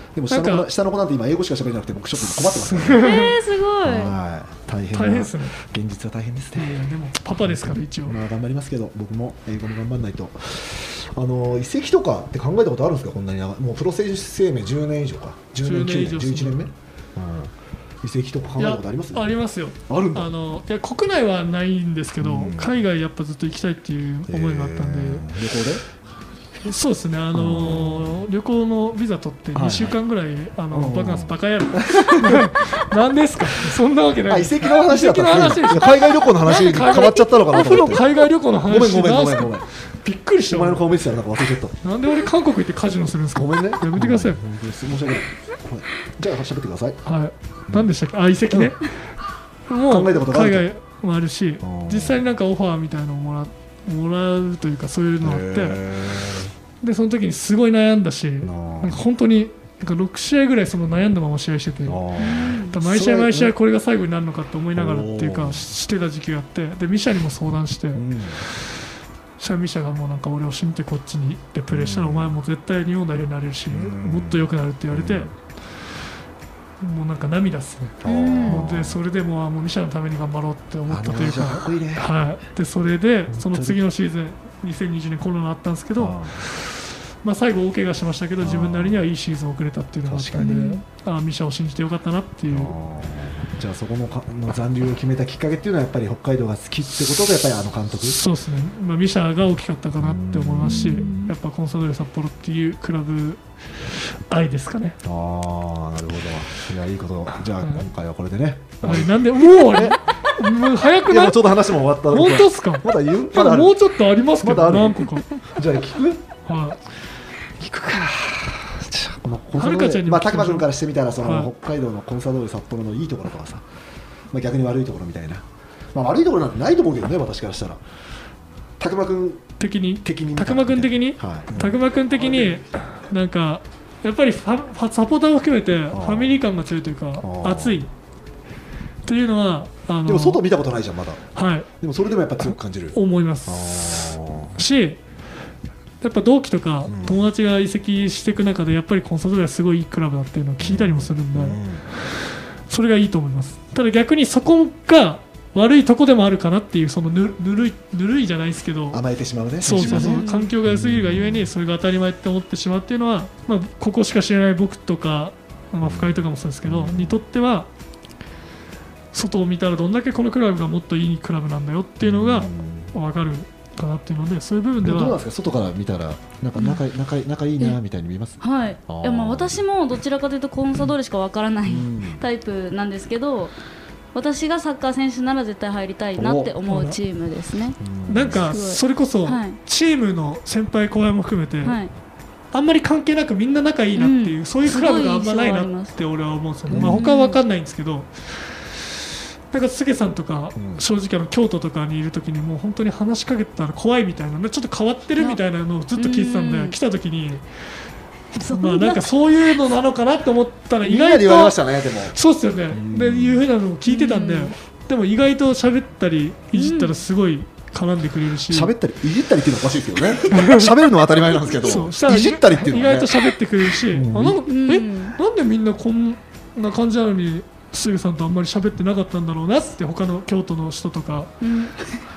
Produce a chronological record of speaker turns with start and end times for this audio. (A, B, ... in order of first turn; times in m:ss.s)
0:00.1-0:03.2 A
0:00.3-0:00.7 B
0:02.2-0:03.4 B
0:02.9-0:04.2 C
0:03.8-0:06.8 A
0:04.9-0:05.6 B
0:06.6-0:08.2 B
0:07.3-0:19.4 A
0:15.6-0:16.6 B
0:18.6-0:25.3 B
0:19.9-0:20.3 A
0:22.2-0:22.8 A
0:24.3-0:25.8 A
0:26.6-0:40.9 B
0:27.3-0:28.2 A
0:29.5-0:30.0 A
0:30.7-0:32.5 A
0:34.3-0:39.7 A
0:40.5-0:41.8 A
0:41.8-0:44.4 B
0:43.4-0:47.0 A
0:47.0-0:48.9 B
0:48.5-0:48.8 A
0:49.7-0:55.8 B
0:49.9-0:50.7 A
0:51.6-0:52.2 A
0:55.2-0:56.5 A
0:56.8-1:02.0 B
0:58.4-0:59.0 A
1:01.8-1:03.5 A
1:02.2-1:02.8 C
1:02.7-1:08.1 B
1:04.8-1:05.7 A
1:08.0-1:08.4 A
1:09.4-1:15.3 B
1:11.7-1:12.4 A
1:13.7-1:15.3 A
1:16.8-1:26.6 B
1:18.0-1:19.0 A
1:18.0-1:18.6 C
1:20.9-1:22.1 A
1:23.3-1:23.8 A
1:26.0-1:26.4 A
1:27.2-1:32.7 B
1:28.4-1:29.0 A
1:30.1-1:30.6 A
1:30.4-1:30.8 C
1:32.5-1:38.2 A
1:38.0-1:45.0 B
1:40.0-1:41.2 A
1:40.6-1:41.3 C
1:45.0-1:50.0 A
1:47.6-1:47.9 B
1:48.8-1:51.6 B
1:51.1-1:53.8 A
1:52.1-1:55.3 B
1:54.4-1:56.4 A
1:56.5-1:56.8 B
1:57.6-2:03.7 A
1:59.6-2:00.7 B
2:01.2-2:01.5 B
2:04.3-2:07.8 A
2:08.8-2:09.5 A
2:09.6-2:17.9 B
2:10.0-2:12.6 A
2:15.9-2:16.4 A
2:17.2-2:17.8 A
2:19.1-2:20.4 B
2:20.1-2:21.2 A
2:21.3-2:21.7 B
2:21.8-2:24.6 A
2:22.4-2:25.0 B
2:26.0-2:31.6 B
2:26.9-2:27.2 A
2:30.6-2:31.8 A
2:32.7-2:39.0 B
2:38.9-2:41.5 A
2:39.6-2:47.7 B
2:39.8-2:40.5 C
2:45.8-2:47.2 A
2:49.1-2:55.2 B
2:52.0-2:53.0 A
2:54.8-2:59.6 A
2:56.6-2:56.8 C
2:58.4-3:03.6 C
3:01.7-3:02.3 A
3:04.1-3:07.8 C
3:06.2-3:06.6 A
3:06.7-3:07.0 B
3:07.8-3:08.5 A
3:08.1-3:11.8 B
3:08.4-3:09.6 C
3:11.6-3:11.9 C
3:12.5-3:18.6 B
3:14.0-3:15.9 C
3:16.7-3:17.1 A
3:16.7-3:17.4 C
3:19.5-3:27.4 B
3:20.6-3:20.8 A
3:26.0-3:26.8 C
3:28.4-3:29.0 C
3:28.4-3:31.6 B
3:30.8-3:32.2 A
3:32.1-3:38.7 B
3:32.7-3:33.5 A
3:33.9-3:34.5 C
3:36.5-3:36.9 C
3:38.5-3:43.2 A
3:40.3-3:40.7 B
3:41.6-3:51.3 B
3:43.9-3:44.4 A
3:44.5-3:45.2 C
3:51.4-3:52.0 C